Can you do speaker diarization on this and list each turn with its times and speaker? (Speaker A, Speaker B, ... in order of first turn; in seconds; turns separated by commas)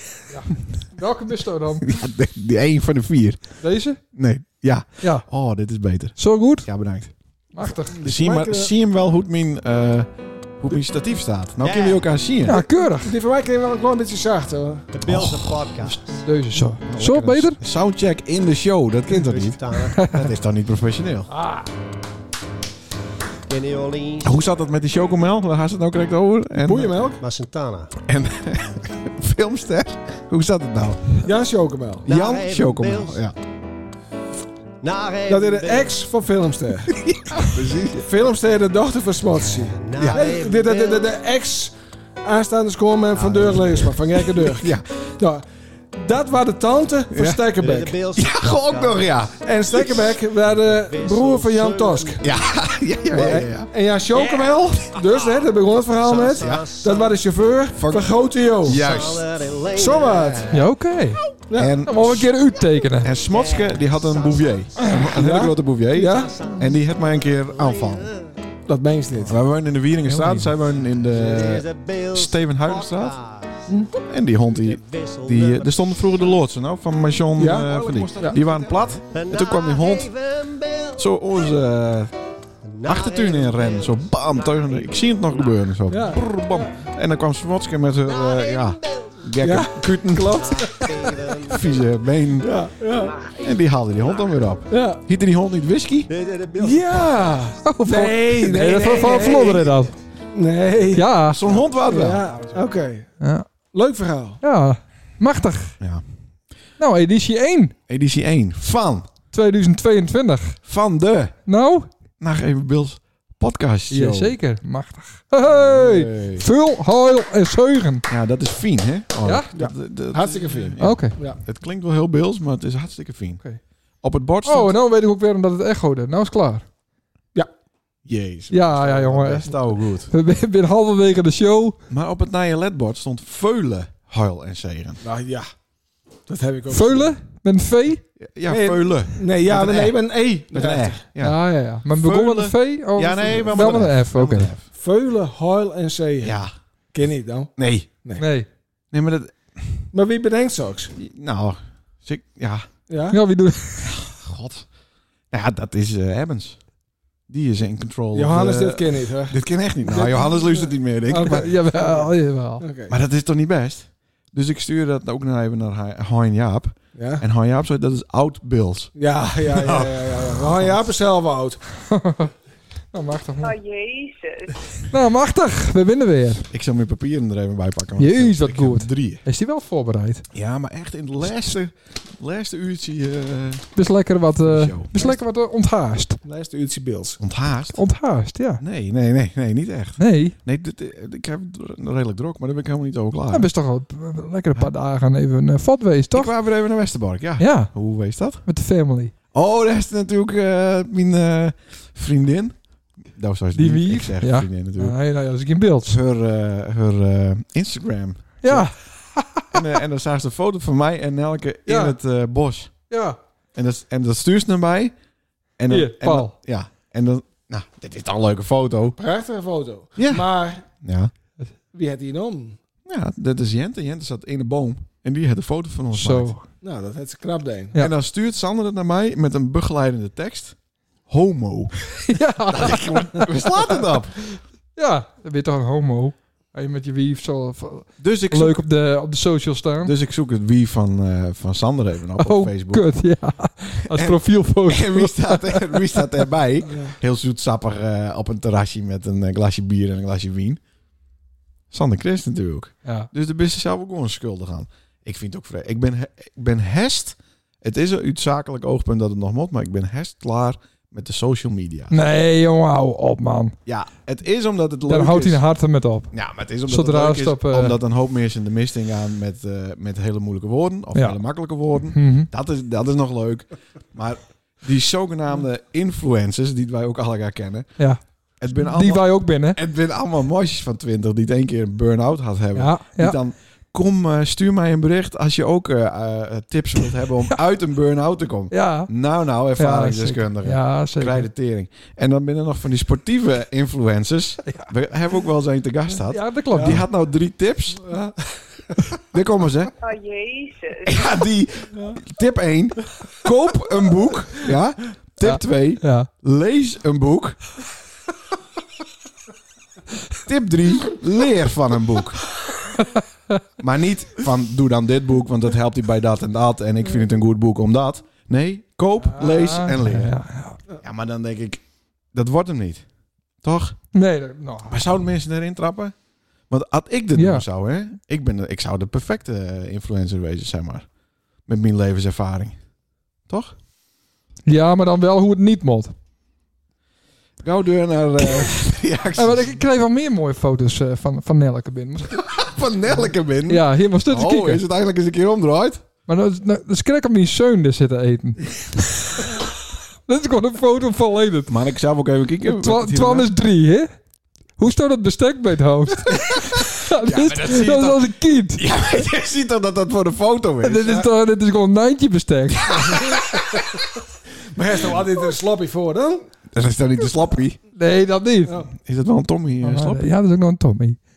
Speaker A: 0.3-1.9, Speaker B: 1.8-3.6, Speaker A: 3.6-4.0, Speaker B: 4.1-7.1, Speaker A: 5.0-5.3, Speaker A: 6.2-6.7, Speaker A: 7.5-8.0, Speaker C: 7.9-8.7, Speaker B: 8.0-12.6, Speaker D: 11.6-12.0, Speaker A: 12.4-13.1, Speaker C: 12.5-14.9, Speaker D: 14.9-16.2, Speaker B: 15.1-15.6, Speaker A: 15.8-17.6, Speaker B: 16.8-21.3, Speaker D: 19.1-20.0, Speaker A: 19.8-20.3, Speaker A: 21.3-21.7, Speaker D: 23.5-24.4, Speaker B: 24.2-26.9, Speaker C: 26.6-27.2, Speaker D: 27.2-27.9, Speaker B: 28.0-31.2, Speaker C: 31.2-32.1, Speaker B: 32.0-33.3, Speaker D: 32.1-33.2, Speaker D: 34.8-36.0, Speaker C: 35.3-37.0, Speaker B: 37.1-38.1, Speaker C: 37.9-48.0, Speaker D: 39.5-41.1, Speaker B: 39.9-40.4, Speaker D: 43.1-44.0, Speaker B: 44.4-44.9, Speaker B: 47.1-47.4, Speaker D: 47.6-49.2, Speaker B: 48.1-50.1, Speaker C: 49.4-52.3, Speaker D: 50.2-52.4, Speaker B: 52.2-53.7, Speaker C: 53.1-58.8, Speaker D: 54.1-57.2, Speaker B: 56.4-56.6, Speaker B: 57.7-59.3, Speaker D: 58.7-60.6, Speaker C: 59.7-60.5, Speaker A: 60.5-61.3, Speaker C: 61.5-61.8, Speaker B: 61.5-62.4, Speaker A: 61.9-63.1, Speaker B: 62.9-68.1, Speaker D: 63.2-64.9, Speaker C: 65.0-66.3, Speaker D: 66.0-68.3, Speaker C: 68.7-69.4, Speaker B: 69.2-73.2, Speaker A: 70.1-70.5, Speaker D: 70.8-73.7, Speaker B: 74.1-80.1, Speaker D: 74.5-76.3, Speaker C: 77.4-78.4, Speaker D: 77.6-81.5, Speaker B: 81.0-82.1, Speaker D: 82.7-85.6, Speaker B: 82.8-90.7, Speaker C: 85.9-86.3, Speaker D: 88.0-89.3, Speaker C: 89.4-91.2, Speaker D: 90.2-91.9, Speaker B: 91.5-92.6, Speaker C: 92.4-93.2, Speaker D: 92.9-94.6, Speaker B: 93.4-96.1, Speaker C: 94.7-95.0, Speaker D: 96.1-97.5, Speaker C: 96.6-99.7, Speaker A: 97.6-100.0, Speaker D: 98.6-99.7, Speaker C: 100.3-101.1, Speaker A: 100.9-101.4, Speaker B: 101.2-102.3, Speaker D: 101.4-101.8, Speaker C: 101.8-103.1, Speaker A: 103.2-103.5, Speaker C: 103.7-104.4, Speaker A: 104.4-105.8, Speaker A: 106.8-107.8, Speaker B: 107.9-109.1, Speaker A: 109.3-110.6, Speaker B: 110.7-111.4, Speaker A: 111.5-111.9, Speaker B: 112.2-114.4, Speaker A: 113.9-118.0, Speaker B: 115.4-116.5, Speaker B: 118.1-123.4, Speaker C: 119.5-121.4, Speaker A: 120.8-121.2, Speaker B: 124.0-124.7, Speaker A: 124.5-126.7, Speaker B: 128.1-130.1, Speaker A: 128.5-131.8, Speaker B: 131.9-135.0, Speaker C: 135.0-135.5, Speaker C: 136.3-137.2, Speaker A: 136.7-138.1, Speaker B: 138.2-144.7, Speaker C: 138.5-141.0, Speaker A: 141.2-144.5, Speaker C: 143.3-143.9, Speaker C: 144.7-147.5, Speaker B: 146.2-146.5, Speaker B: 147.6-147.9, Speaker A: 148.2-148.5, Speaker B: 148.9-149.9, Speaker C: 149.9-150.9, Speaker B: 151.0-152.7, Speaker C: 152.9-153.2, Speaker A: 153.1-154.0, Speaker B: 153.8-154.7, Speaker B: 155.3-156.6, Speaker B: 157.3-161.5, Speaker C: 158.1-162.9, Speaker A: 161.1-162.6, Speaker B: 162.9-170.9, Speaker C: 166.9-167.2, Speaker C: 169.0-171.6, Speaker A: 171.9-172.3, Speaker A: 172.9-173.6, Speaker E: 173.4-174.5, Speaker A: 174.8-176.5, Speaker B: 176.5-179.2, Speaker A: 178.0-180.3, Speaker B: 180.3-183.7, Speaker A: 183.8-186.2, Speaker B: 184.4-184.9, Speaker C: 186.2-187.2, Speaker B: 187.2-187.8, Speaker A: 187.7-188.6, Speaker B: 188.6-193.5, Speaker A: 190.0-190.3, Speaker A: 193.3-196.3, Speaker B: 196.1-198.4, Speaker A: 197.4-197.7, Speaker A: 198.5-199.1, Speaker B: 199.3-202.6, Speaker B: 203.1-204.9, Speaker A: 203.6-206.0, Speaker B: 205.9-208.7, Speaker A: 208.4-209.8, Speaker B: 209.5-212.8, Speaker A: 211.7-212.0, Speaker A: 212.9-213.2, Speaker B: 213.6-214.9, Speaker B: 215.6-219.0, Speaker A: 215.7-216.3, Speaker C: 219.0-220.7, Speaker B: 220.0-221.1, Speaker C: 221.7-222.6, Speaker B: 222.9-226.4, Speaker A: 225.9-226.4, Speaker C: 226.6-227.7, Speaker B: 227.8-230.6, Speaker B: 231.1-234.2, Speaker A: 232.1-233.4, Speaker A: 234.8-239.9, Speaker B: 238.0-238.6, Speaker B: 239.8-242.9, Speaker A: 242.2-246.1, Speaker B: 243.9-250.6, Speaker C: 246.7-246.9, Speaker B: 251.7-262.0, Speaker A: 261.9-263.6, Speaker B: 263.7-265.4, Speaker A: 264.9-266.1, Speaker B: 266.1-277.8, Speaker A: 266.7-267.8, Speaker A: 270.9-271.2, Speaker A: 271.8-272.3, Speaker B: 278.4-297.9, Speaker A: 278.6-279.6, Speaker A: 282.6-283.2, Speaker A: 288.5-288.9, Speaker A: 289.6-291.3, Speaker A: 296.1-296.8, Speaker C: 297.8-298.8, Speaker B: 299.1-299.7, Speaker E: 299.8-301.0, Speaker B: 300.9-307.4, Speaker A: 305.2-306.1, Speaker B: 310.2-312.3, Speaker A: 312.7-313.0, Speaker B: 313.6-320.1, Speaker A: 319.1-320.6, Speaker B: 320.8-321.6, Speaker B: 322.1-322.8, Speaker B: 323.4-323.8, Speaker A: 323.9-324.8, Speaker B: 324.7-325.9, Speaker B: 326.5-330.9, Speaker A: 327.1-327.4, Speaker B: 331.5-332.6, Speaker B: 333.3-333.6, Speaker A: 334.5-335.9, Speaker B: 337.4-339.6, Speaker A: 339.1-342.4, Speaker B: 342.1-345.8, Speaker A: 343.4-344.6, Speaker A: 346.1-351.6, Speaker B: 351.5-353.3, Speaker A: 352.4-353.9, Speaker A: 354.6-358.6, Speaker B: 356.1-361.1, Speaker A: 360.6-363.2, Speaker B: 362.7-363.2, Speaker C: 364.5-366.2, Speaker B: 366.5-367.6, Speaker A: 367.8-368.6, Speaker B: 368.8-370.1, Speaker A: 369.6-371.0